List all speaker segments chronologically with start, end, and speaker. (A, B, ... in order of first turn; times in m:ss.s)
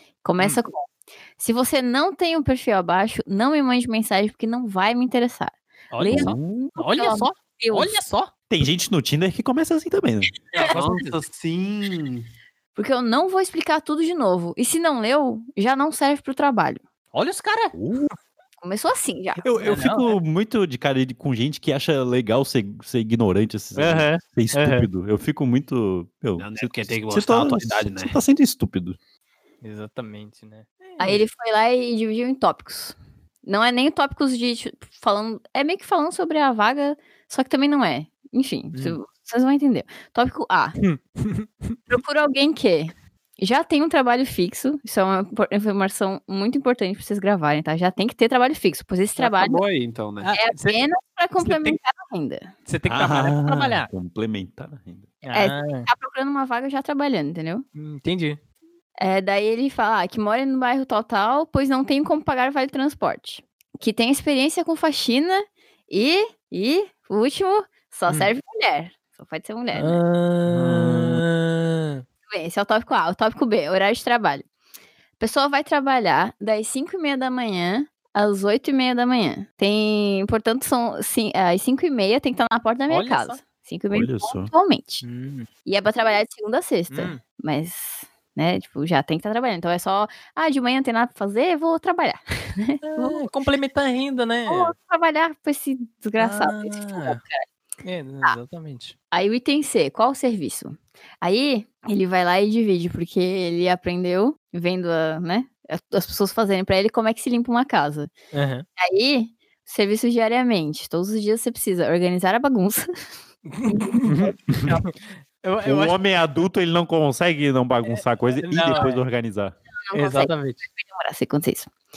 0:00.2-0:08.0 A
0:05.9-0:08.3 B
0:06.0-0:06.6 C
0:08.5-0:10.3 C
0:10.5-0:11.1 B
0:10.7-0:12.3 D
0:12.8-0:16.8 A
0:17.1-0:17.8 B
0:17.7-0:18.1 C
0:18.6-0:19.4 A
0:19.4-0:29.0 C
0:19.6-0:20.2 B
0:23.8-0:24.9 B
0:26.4-0:28.2 D
0:29.6-0:31.2 B
0:31.0-0:40.8 A
0:38.7-0:39.0 B
0:40.8-0:41.8 B
0:41.9-0:49.6 A
0:49.2-0:50.3 D
0:50.2-0:50.8 B
0:50.4-0:52.5 A
0:51.4-0:51.8 B
0:52.7-0:53.9 B
0:52.8-0:55.1 C
0:55.2-0:55.9 B
0:55.3-0:57.6 A
0:57.8-0:58.4 B
0:59.0-1:10.0 A
1:09.7-1:12.0 B
1:10.5-1:11.2 C
1:12.3-1:14.4 A
1:15.2-1:25.0 A
1:22.9-1:23.4 B
1:23.9-1:24.5 C
1:25.0-1:25.5 B
1:25.6-1:33.2 A
1:26.9-1:27.2 B
1:32.8-1:34.7 B
1:34.5-1:37.4 A
1:36.2-1:37.2 B
1:37.8-1:38.9 B
1:39.1-1:48.1 A
1:48.3-1:48.6 B
1:48.8-1:52.9 A
1:53.5-1:56.0 B
1:53.7-1:54.3 A
1:54.1-1:54.8 C
1:55.6-1:59.5 C
1:58.4-1:59.0 B
1:59.9-2:01.7 A
1:59.9-2:00.6 B